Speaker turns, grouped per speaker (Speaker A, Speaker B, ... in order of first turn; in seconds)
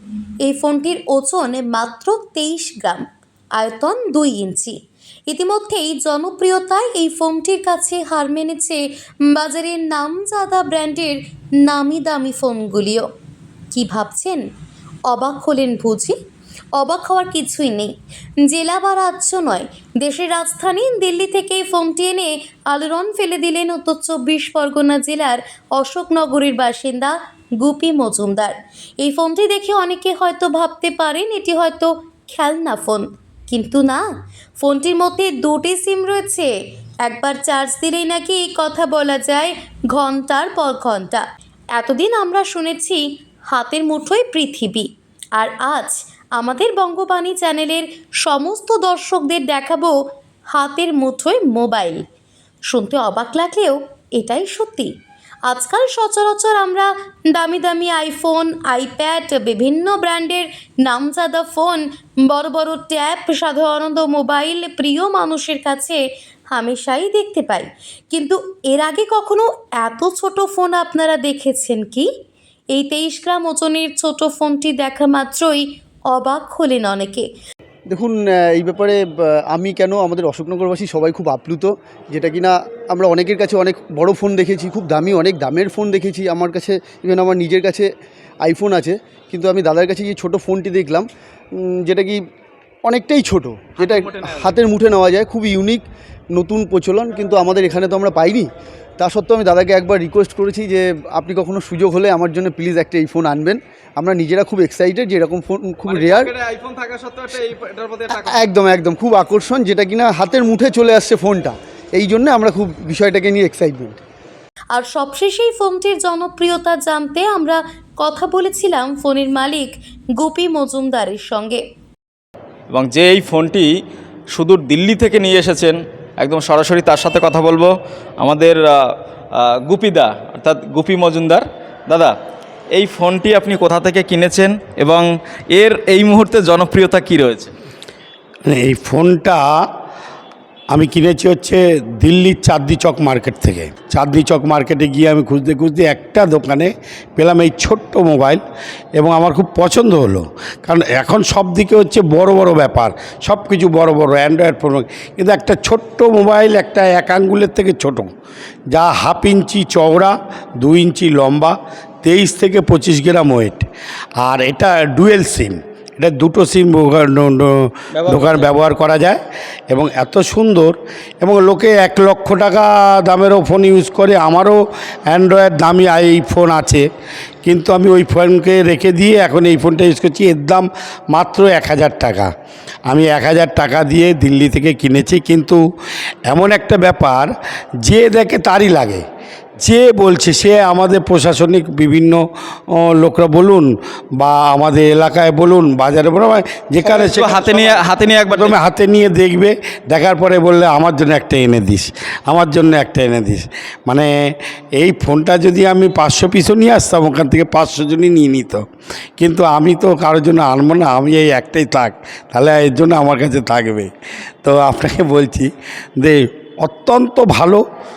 Speaker A: 0.4-3.0, 3.6-4.8, 5.3-13.1, 13.7-14.4, 15.1-16.2, 16.8-17.9, 18.4-34.0, 34.6-36.5, 37.0-41.2, 41.8-50.0, 50.5-52.0, 52.7-54.9, 55.5-66.0, 66.5-72.1, 72.7-77.3, 114.7-121.6
Speaker B: 77.9-87.9, 88.4-92.2, 92.8-106.3, 108.1-114.0
Speaker C: 93.8-94.6, 105.9-108.5, 122.7-123.7, 124.3-128.8, 129.4-132.1, 132.8-137.5, 167.9-168.5, 196.8-198.6
Speaker D: 138.5-139.6, 140.7-148.4, 149.0-158.1, 158.7-163.7, 164.2-169.2, 169.7-176.9, 177.4-182.3, 182.9-185.6, 186.3-187.3, 187.8-189.0, 189.6-192.2, 192.8-204.1, 204.8-208.6, 209.2-213.9, 214.4-217.6